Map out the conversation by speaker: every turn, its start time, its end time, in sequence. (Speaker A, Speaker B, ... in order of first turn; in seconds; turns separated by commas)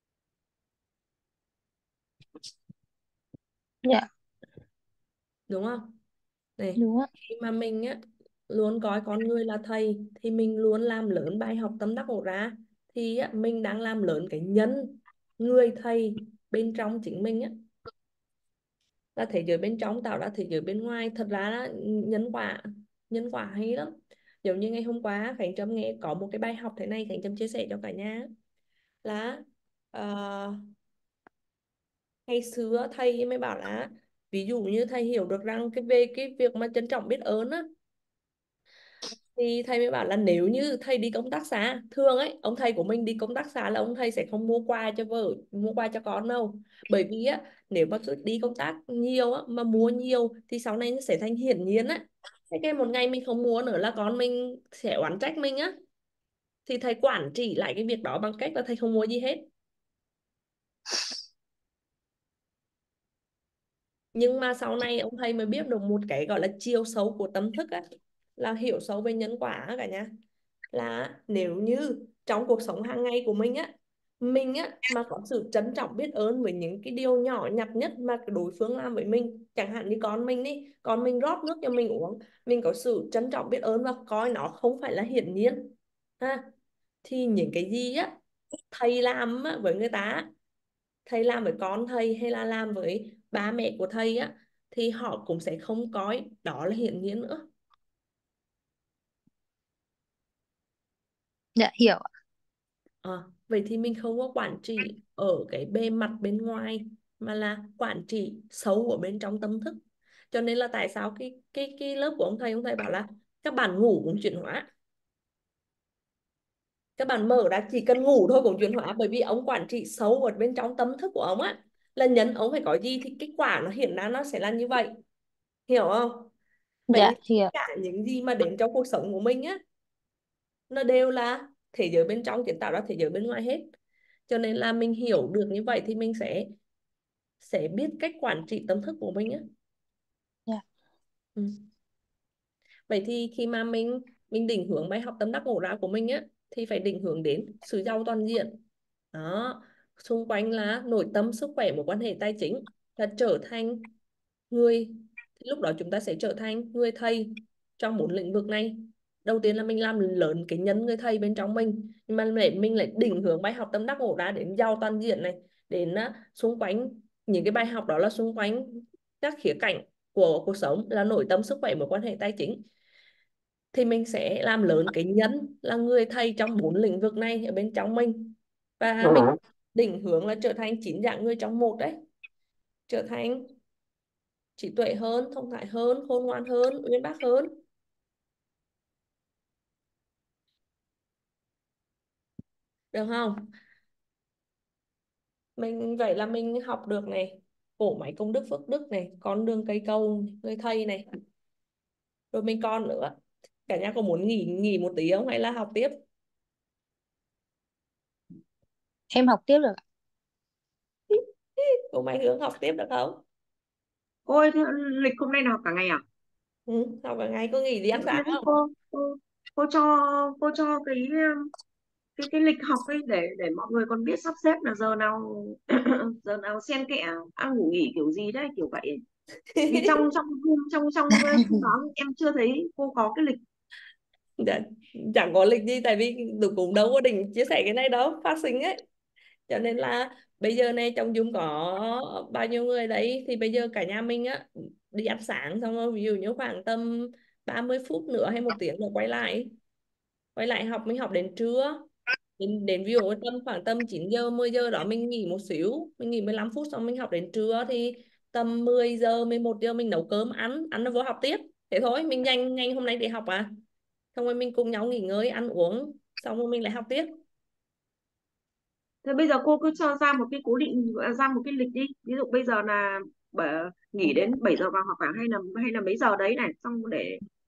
Speaker A: 5.5-5.9, Speaker A: 6.6-17.5, Speaker B: 6.8-7.1, Speaker A: 19.1-28.3, Speaker A: 29.0-30.6, Speaker A: 32.3-37.6, Speaker A: 39.3-55.7, Speaker A: 56.6-59.4, Speaker A: 64.1-67.8, Speaker A: 68.4-70.1, Speaker A: 70.7-86.5, Speaker A: 87.0-88.1, Speaker A: 88.7-90.3, Speaker A: 91.0-97.4, Speaker B: 101.5-102.1, Speaker A: 103.0-109.8, Speaker A: 110.3-114.7, Speaker A: 117.0-124.9, Speaker A: 125.7-126.3, Speaker A: 126.9-129.6, Speaker B: 126.9-127.5, Speaker A: 130.7-133.7, Speaker A: 134.3-136.5, Speaker A: 137.4-139.4, Speaker A: 142.9-148.5, Speaker A: 149.1-153.9, Speaker A: 154.5-172.6, Speaker A: 173.7-181.9, Speaker A: 182.9-183.5, Speaker A: 184.6-187.5, Speaker A: 192.9-193.5, Speaker A: 195.6-201.0, Speaker A: 202.3-203.1, Speaker A: 203.7-206.0, Speaker B: 209.1-209.8, Speaker A: 211.9-213.2, Speaker C: 214.3-216.0, Speaker A: 216.7-218.4, Speaker C: 217.9-221.5, Speaker C: 222.2-229.0, Speaker A: 229.5-230.0, Speaker C: 229.7-233.4, Speaker A: 234.4-238.8, Speaker A: 239.5-249.5, Speaker A: 250.3-251.8, Speaker A: 252.4-263.5, Speaker A: 264.1-267.1, Speaker C: 269.0-277.2